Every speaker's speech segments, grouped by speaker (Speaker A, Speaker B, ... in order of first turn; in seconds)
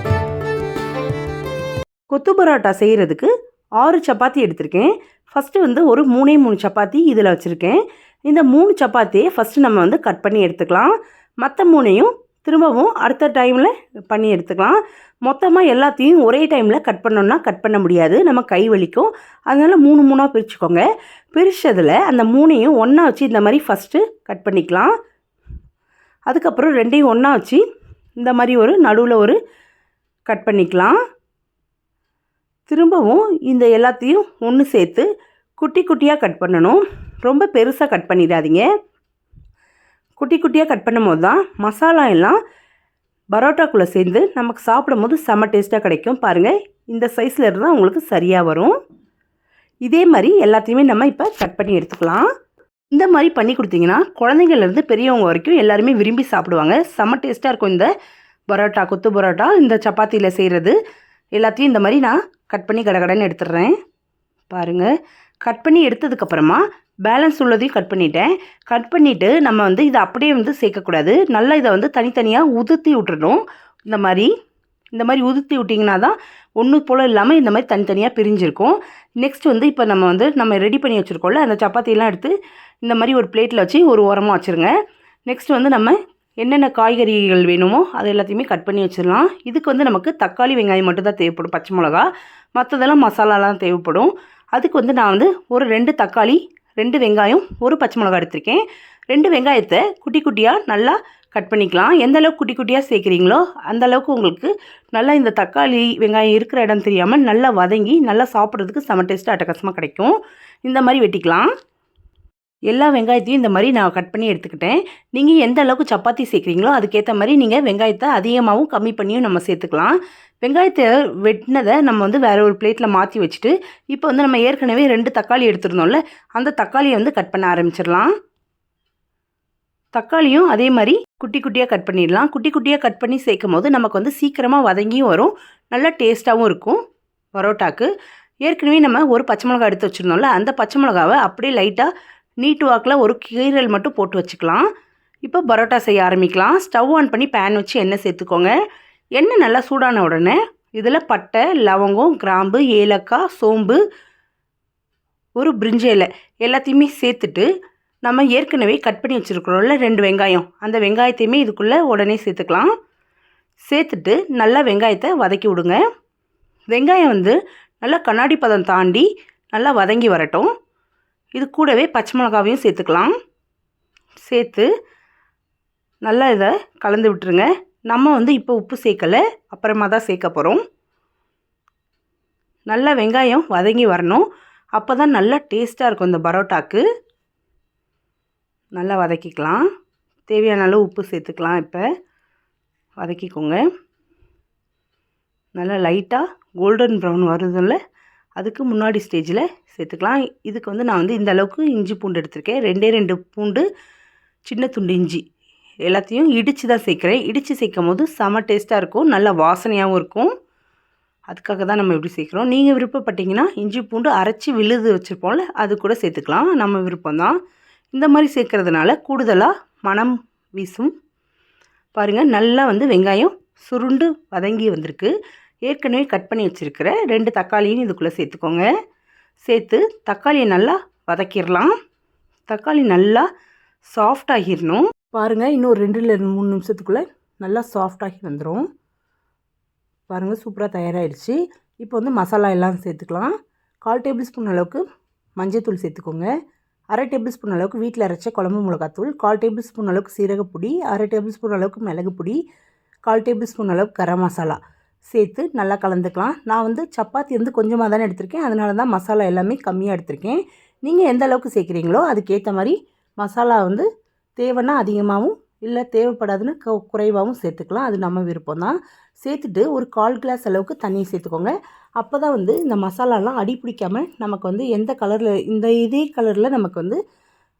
Speaker A: 2.1-24.9, 26.3-27.6, 28.2-29.4, 30.3-30.9, 32.7-35.1, 35.6-38.7, 40.2-42.4, 43.3-48.7, 49.8-52.2, 52.9-57.9, 58.5-60.8, 61.3-63.7, 64.5-64.9, 65.4-74.3, 74.9-84.7, 85.3-111.5, 112.7-128.1, 129.9-136.8, 137.3-137.9, 138.4-141.9, 142.4-144.6, 145.2-148.5, 149.2-153.8, 155.4-157.5, 158.0-162.7, 163.7-165.8, 166.7-170.5, 171.3-173.1, 174.2-174.7, 176.0-180.6, 182.7-186.8, 188.8-189.6, 190.3-191.8, 193.0-193.6, 195.6-197.8, 198.4-203.7, 204.4-205.2, 205.8-210.3, 211.3-217.4, 217.9-220.9, 221.9-225.1, 225.7-228.7, 229.4-231.7, 232.5-233.3, 233.9-238.7, 240.1-243.3, 243.8-244.8, 245.4-246.3, 246.9-252.4, 253.1-254.6, 255.1-263.8, 264.4-277.0